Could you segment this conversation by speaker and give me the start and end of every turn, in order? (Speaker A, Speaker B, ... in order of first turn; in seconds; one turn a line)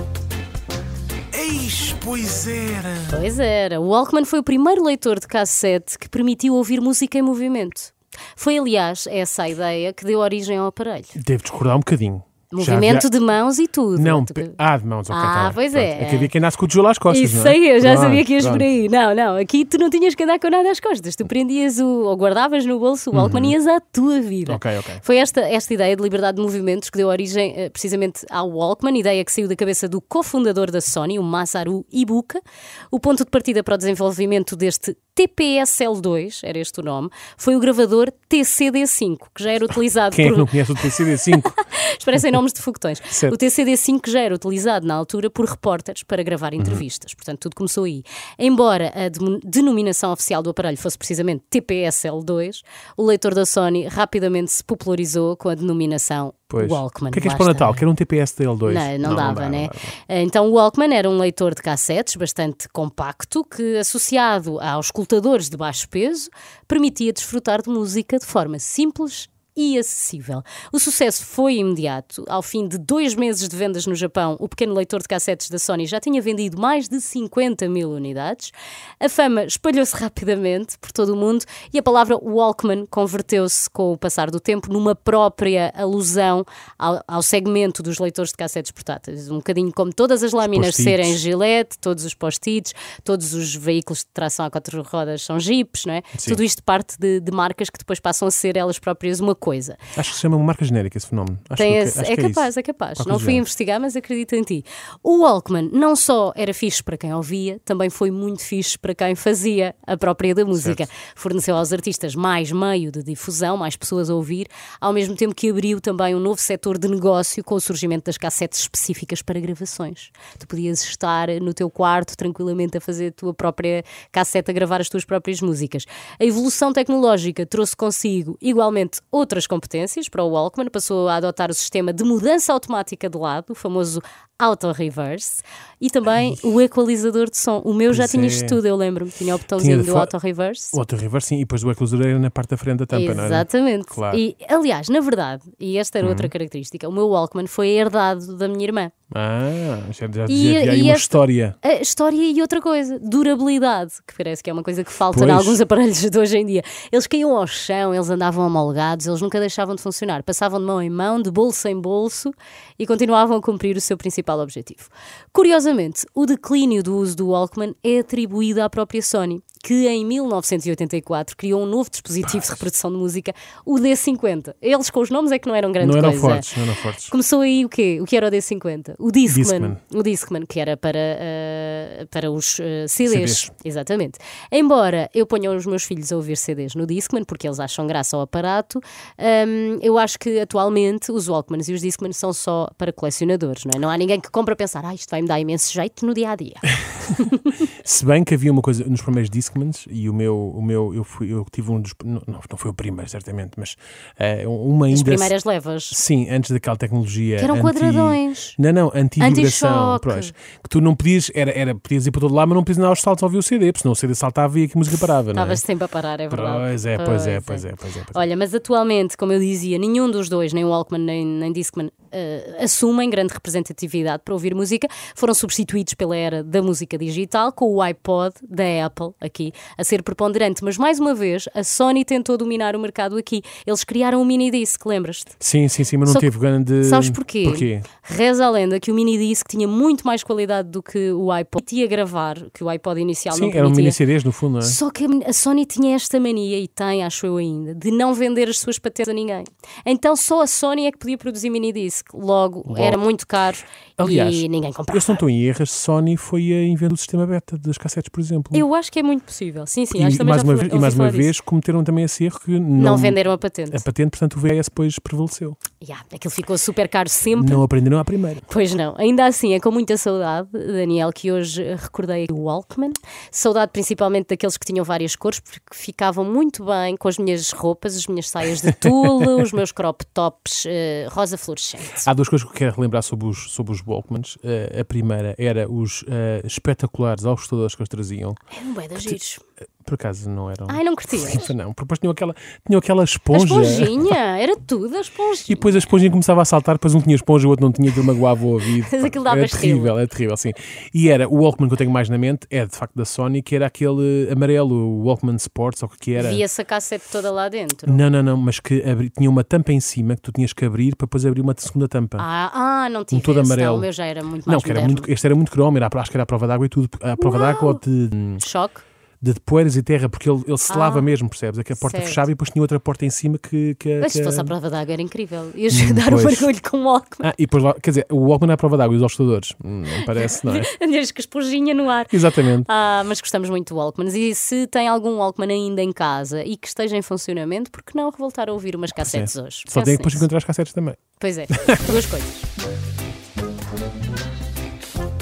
Speaker A: 1.3-3.2
Speaker B: 3.1-11.2
Speaker A: 11.2-13.1
Speaker B: 12.5-14.6
Speaker A: 13.9-18.7
Speaker B: 15.1-16.3
Speaker B: 17.1-57.8
Speaker A: 23.1-23.6
Speaker A: 24.5-25.0
Speaker A: 40.1-41.5
Speaker A: 46.6-46.8
Speaker A: 56.5-59.9
Speaker B: 58.7-99.8
Speaker A: 90.4-91.2
Speaker A: 96.2-96.4
Speaker A: 100.0-103.5
Speaker B: 101.6-140.8
Speaker A: 110.6-110.8
Speaker A: 137.9-138.6
Speaker A: 139.6-140.1
Speaker A: 140.7-144.2
Speaker B: 142.9-148.9
Speaker A: 146.0-146.3
Speaker A: 149.1-151.6
Speaker B: 150.3-197.6
Speaker A: 155.1-155.6
Speaker A: 175.8-177.1
Speaker A: 179.3-179.8
Speaker A: 183.1-183.5
Speaker A: 197.7-205.3
Speaker B: 204.9-206.0
Speaker A: 205.9-215.6
Speaker B: 207.4-208.6
Speaker B: 209.2-210.3
Speaker B: 215.3-235.4
Speaker A: 216.3-218.2
Speaker A: 235.4-237.9
Speaker B: 236.8-244.0
Speaker A: 243.3-244.8
Speaker B: 244.6-255.2
Speaker A: 252.7-253.0
Speaker A: 254.0-258.7
Speaker B: 258.5-261.3
Speaker A: 259.9-263.2
Speaker B: 262.8-263.9
Speaker A: 263.7-265.6
Speaker B: 265.8-267.6
Speaker A: 267.4-268.4
Speaker B: 268.5-282.1
Speaker A: 282.0-288.4
Speaker B: 288.5-289.4
Speaker A: 289.8-294.2
Speaker B: 290.7-291.5
Speaker B: 293.3-295.9
Speaker A: 295.5-306.4
Speaker B: 298.8-300.0
Speaker B: 306.2-308.0
Speaker A: 307.9-312.3
Speaker B: 312.2-315.1
Speaker A: 313.1-313.9
Speaker A: 314.5-318.4
Speaker B: 317.2-317.8
Speaker B: 318.4-318.8
Speaker A: 319.2-324.5
Speaker B: 320.7-321.1
Speaker B: 321.8-322.2
Speaker B: 324.0-327.3
Speaker A: 325.7-326.5
Speaker A: 327.2-330.7
Speaker B: 330.0-340.3
Speaker A: 332.1-332.7
Speaker A: 339.0-342.0
Speaker B: 341.2-342.5